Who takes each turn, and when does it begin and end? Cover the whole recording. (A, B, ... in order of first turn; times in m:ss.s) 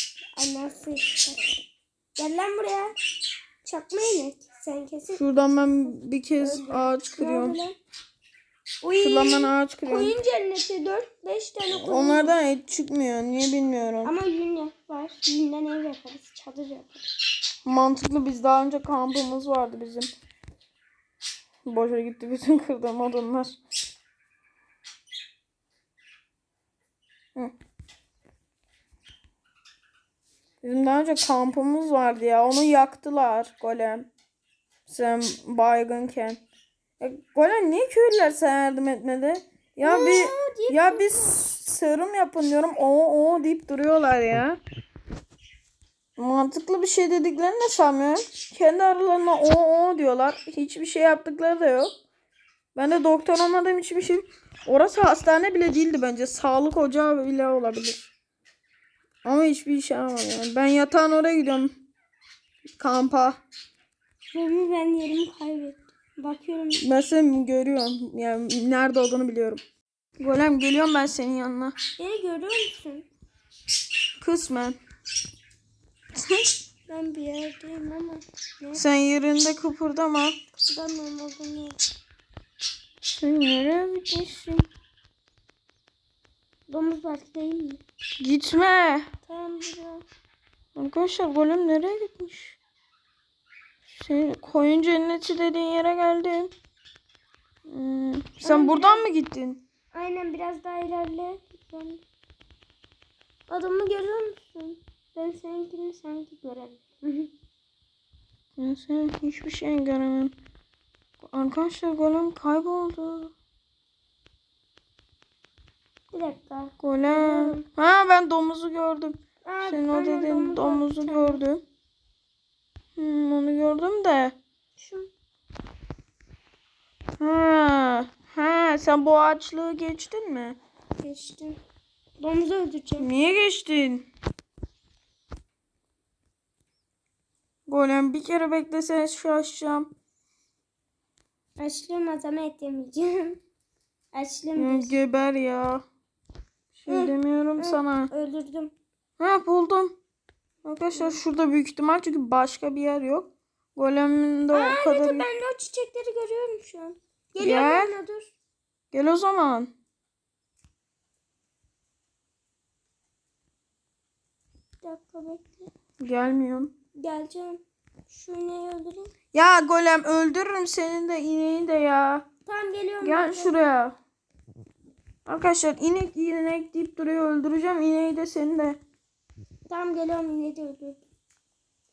0:00.4-0:01.4 A
0:02.2-0:03.0 A
0:03.6-0:05.2 A
0:05.1-0:07.6 B
0:06.4-0:07.8 A
0:08.8-0:12.4 A
0:09.0-0:10.1 B
0:11.7-0:14.1 B
0:14.0-0:17.1 A
0:17.6-0:20.1 B
0:21.6-0:23.6 B
0:30.6-0:34.1 B
0:34.9-0:36.4 B
0:37.0-0:44.6 B
0:39.8-0:41.4 A
0:46.2-0:51.9 B
0:52.7-0:58.1 B
0:59.2-1:01.7 B
1:02.8-1:03.4 B
1:04.3-1:06.8 A
1:06.8-1:09.6 B
1:10.2-1:11.7 B
1:12.0-1:13.1 A
1:14.2-1:14.8 B
1:16.9-1:18.8 A
1:18.7-1:20.4 B
1:20.5-1:21.8 A
1:23.0-1:24.7 B
1:26.7-1:27.8 A
1:28.2-1:29.1 B
1:29.2-1:30.0 A
1:30.7-1:32.6 B
1:33.9-1:36.5 B
1:37.7-1:39.6 B
1:38.4-1:39.1 A
1:39.9-1:42.0 A
1:43.5-1:47.3 A
1:48.6-1:50.3 B
1:51.2-1:53.3 B
1:56.1-1:57.6 A
1:56.8-2:01.6 B
1:59.4-2:01.4 A
2:03.0-2:04.3 B
2:04.8-2:05.1 A
2:07.2-2:10.6 B
2:11.0-2:11.6 A
2:12.2-2:13.1 A
2:13.0-2:14.1 B
2:17.7-2:19.9 B
2:21.6-2:23.4 A
2:24.1-2:25.0 A
2:24.6-2:25.8 B
2:26.7-2:28.1 B
2:26.9-2:28.7 A
2:29.2-2:29.9 B
2:30.6-2:35.2 B
2:34.5-2:38.3 A
2:37.4-2:37.9 B
2:38.9-2:39.7 B
2:44.8-2:45.7 A
2:46.0-2:46.7 B
2:47.0-2:49.1 A
2:49.3-2:52.2 B
2:52.4-2:53.6 A
2:53.0-2:54.0 B
2:55.2-2:58.8 B
2:59.7-3:01.0 A